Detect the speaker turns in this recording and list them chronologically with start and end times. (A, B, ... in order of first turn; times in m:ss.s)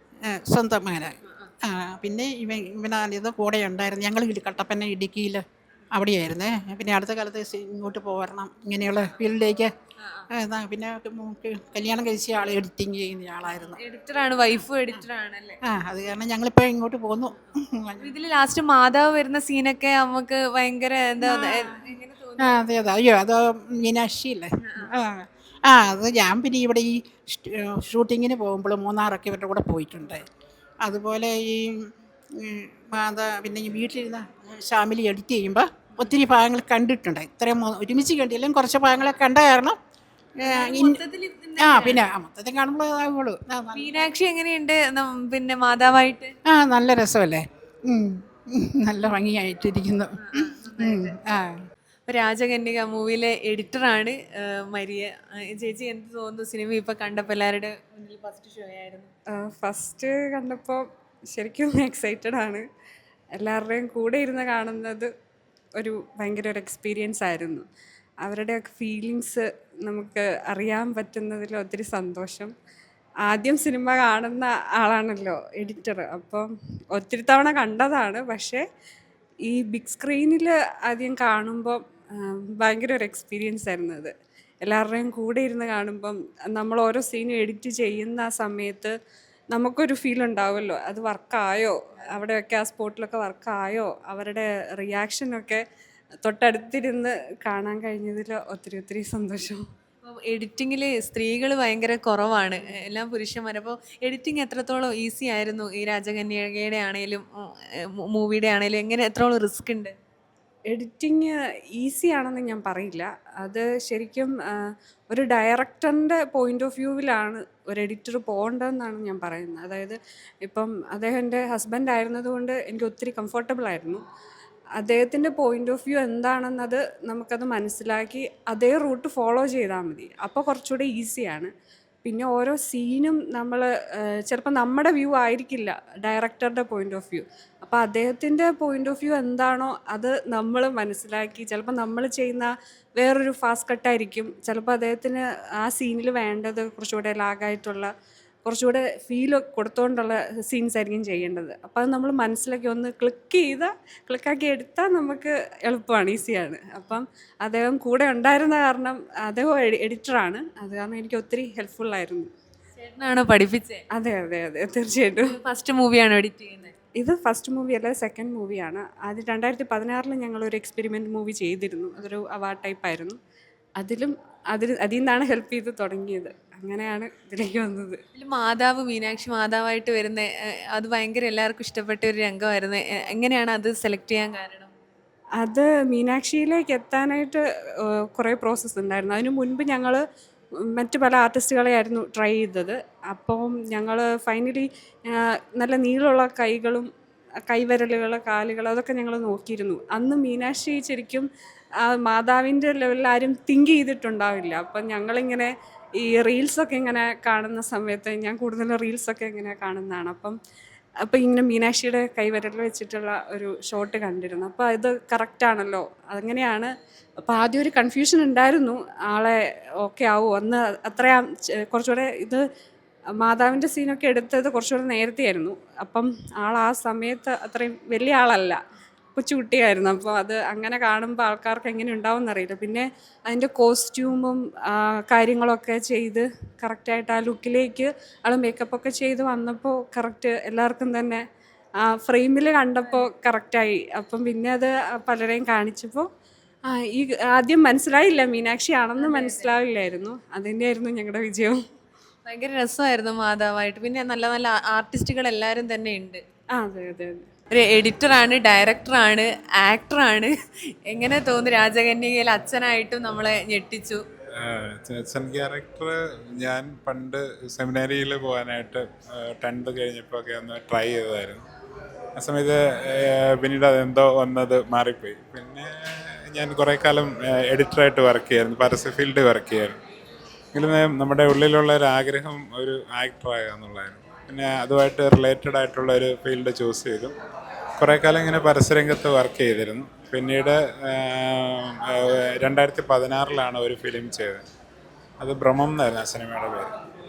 0:00.2-0:09.7 A
0:10.0-0:10.3 B
0:10.3-0:13.8 A
0:13.7-0:15.6 B
0:15.6-0:18.1 A
0:18.0-0:22.6 B
0:21.2-0:21.7 A
0:22.4-0:30.3 A
0:24.6-0:24.9 B
0:30.8-0:39.8 A
0:40.4-0:41.0 A
0:40.4-0:42.0 B
0:41.6-0:44.1 A
0:43.7-0:46.3 B
0:46.5-0:51.6 A
0:50.2-0:51.2 B
0:52.1-0:59.1 B
0:59.3-1:02.6 C
1:03.4-1:05.1 C
1:05.8-1:07.6 C
1:08.2-1:12.5 C
1:13.3-1:18.6 C
1:19.4-1:28.9 C
1:29.5-1:35.6 C
1:36.2-1:39.6 C
1:40.0-1:49.9 B
1:50.7-2:04.0 C
2:04.8-2:11.5 C
2:12.0-2:27.9 C
2:28.4-2:42.3 C
2:42.8-2:43.8 B
2:43.9-2:45.4 C
2:45.2-2:46.7 B
2:47.0-2:53.2 C
2:53.8-2:58.0 C
2:58.1-3:04.7 B
3:05.4-3:10.0 C
3:10.8-3:16.9 C
3:17.5-3:21.3 C
3:21.8-3:30.4 C
3:31.0-3:36.7 C
3:37.2-3:42.4 C
3:43.2-3:48.6 C
3:49.1-4:01.2 C
4:01.8-4:06.1 C
4:02.8-4:03.1 B
4:06.7-4:11.6 C
4:09.0-4:09.6 B
4:12.2-4:16.2 B
4:16.6-4:17.3 C
4:17.5-4:20.3 B
4:20.9-4:24.0 B
4:24.3-4:31.4 D
4:32.2-4:39.8 D
4:40.5-4:47.1 D
4:47.8-4:54.4 D
4:55.2-4:56.7 D